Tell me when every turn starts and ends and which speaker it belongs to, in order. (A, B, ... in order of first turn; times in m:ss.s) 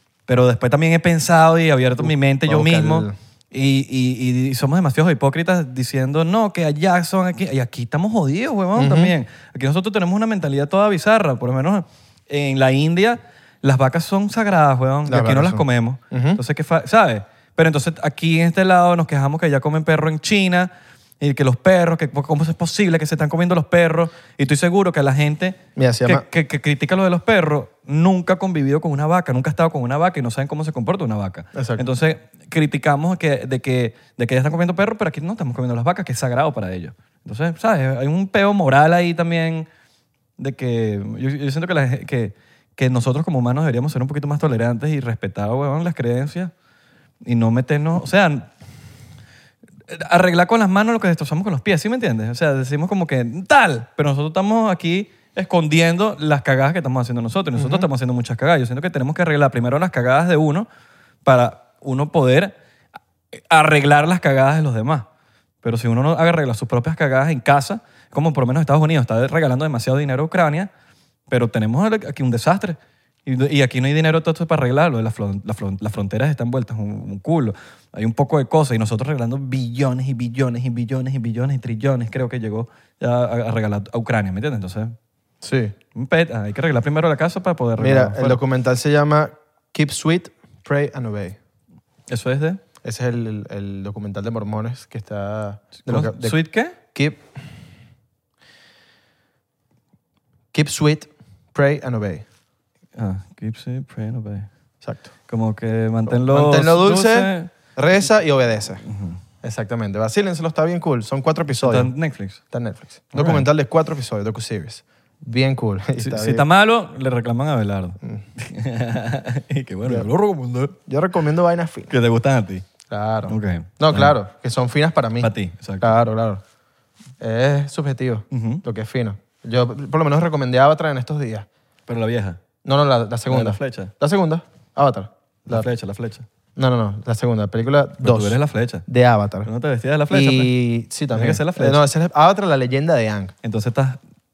0:00.3-0:39.7 A
0:02.0-0:03.1 B
0:08.8-0:09.1 B
0:15.1-0:16.4 B
0:25.8-0:26.2 B
0:31.5-0:31.8 B
0:40.4-0:46.5 A
0:47.2-0:48.5 A
0:49.9-1:00.7 A
0:57.5-0:57.9 B
1:01.2-1:02.5 A
1:03.5-1:05.1 A
1:05.6-1:10.7 A
1:11.3-1:25.0 A
1:25.4-1:25.7 B
1:25.9-1:28.4 A
1:27.8-1:31.4 B
1:32.1-1:32.6 A
1:32.8-1:37.3 B
1:35.8-1:36.8 A
1:40.5-1:42.2 B
1:43.0-1:44.5 A
1:44.8-1:45.1 B
1:45.3-1:47.5 A
1:46.1-1:48.8 B
1:48.8-1:49.2 A
1:49.4-1:51.9 B
1:51.6-1:52.4 A
1:52.5-1:56.4 B
1:53.1-1:53.5 A
1:56.0-2:00.8 A
2:00.9-2:01.9 B
2:01.9-2:02.6 A
2:02.9-2:06.4 B
2:03.3-2:04.1 A
2:05.2-2:05.9 A
2:07.2-2:11.5 B
2:08.3-2:08.6 A
2:11.9-2:12.4 A
2:12.6-2:15.6 B
2:13.3-2:13.9 A
2:15.4-2:16.2 A
2:16.6-2:19.5 B
2:18.0-2:18.8 A
2:19.4-2:20.5 A
2:20.1-2:23.3 B
2:21.1-2:21.8 A
2:23.4-2:24.0 A